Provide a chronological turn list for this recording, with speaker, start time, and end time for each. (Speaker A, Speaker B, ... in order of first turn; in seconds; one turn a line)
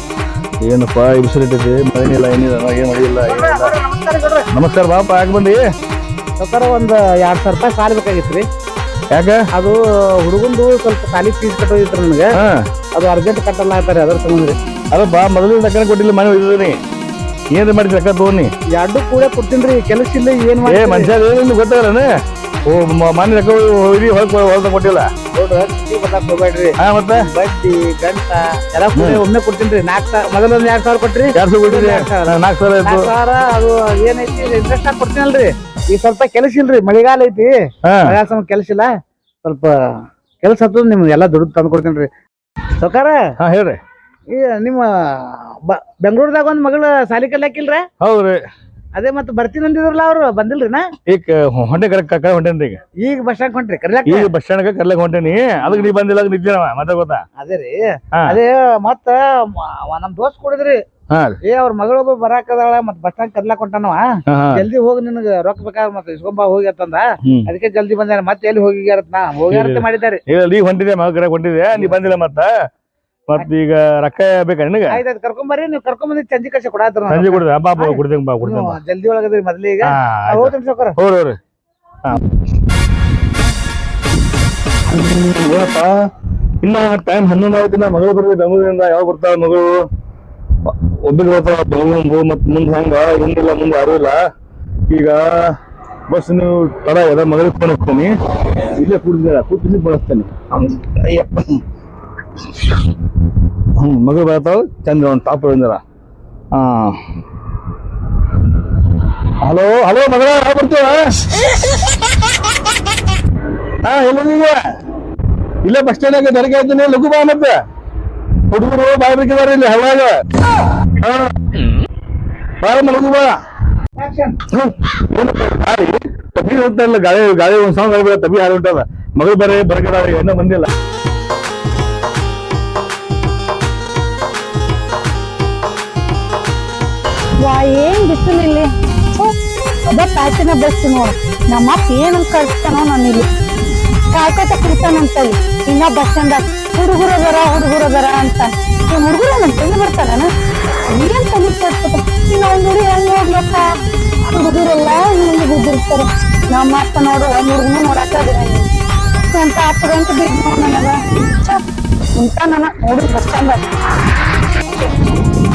Speaker A: 0.6-3.8
Speaker B: 3.3-4.5
Speaker A: 4.5-5.7
Speaker B: 6.4-8.5
Speaker A: 9.1-9.4
Speaker B: 9.5-12.4
Speaker A: 12.3-12.7
Speaker B: 12.9-14.6
Speaker A: 14.9-16.8
Speaker A: 17.5-18.5
Speaker B: 18.7-21.1
Speaker A: 20.6-22.1
Speaker A: 22.7-25.1
Speaker B: 25.4-32.3
Speaker A: 26.8-27.3
Speaker A: 28.9-29.2
Speaker A: 31.4-33.1
Speaker B: 32.8-38.9
Speaker A: 37.9-38.2
Speaker B: 39.4-39.7
Speaker B: 40.4-42.1
Speaker B: 42.8-43.2
Speaker A: 43.4-43.8
Speaker B: 44.3-47.9
Speaker A: 48.0-48.4
Speaker B: 49.0-50.9
Speaker A: 51.1-52.8
Speaker B: 53.0-54.3
Speaker A: 54.1-57.2
Speaker B: 57.4-60.8
Speaker A: 61.1-61.4
Speaker B: 61.5-70.2
Speaker A: 64.3-64.7
Speaker A: 67.2-67.5
Speaker A: 69.5-72.5
Speaker A: 73.3-75.0
Speaker B: 74.9-81.0
Speaker A: 77.1-78.8
Speaker A: 79.8-81.4
Speaker A: 84.9-86.1
Speaker A: 86.6-89.8
Speaker A: 90.7-94.2
Speaker A: 94.9-95.4
Speaker A: 96.1-101.6
Speaker A: 103.8-105.8
Speaker A: 106.5-107.0
Speaker A: 109.4-111.3
Speaker A: 113.8-114.6
Speaker A: 115.6-117.5
Speaker A: 118.5-120.2
Speaker A: 121.0-121.6
Speaker A: 122.6-123.4
Speaker B: 124.0-124.4
Speaker A: 124.5-130.7
Speaker C: 137.4-143.3
Speaker C: 144.1-150.3
Speaker C: 150.9-153.7
Speaker C: 154.3-158.7
Speaker C: 159.3-161.6
Speaker C: 162.2-163.6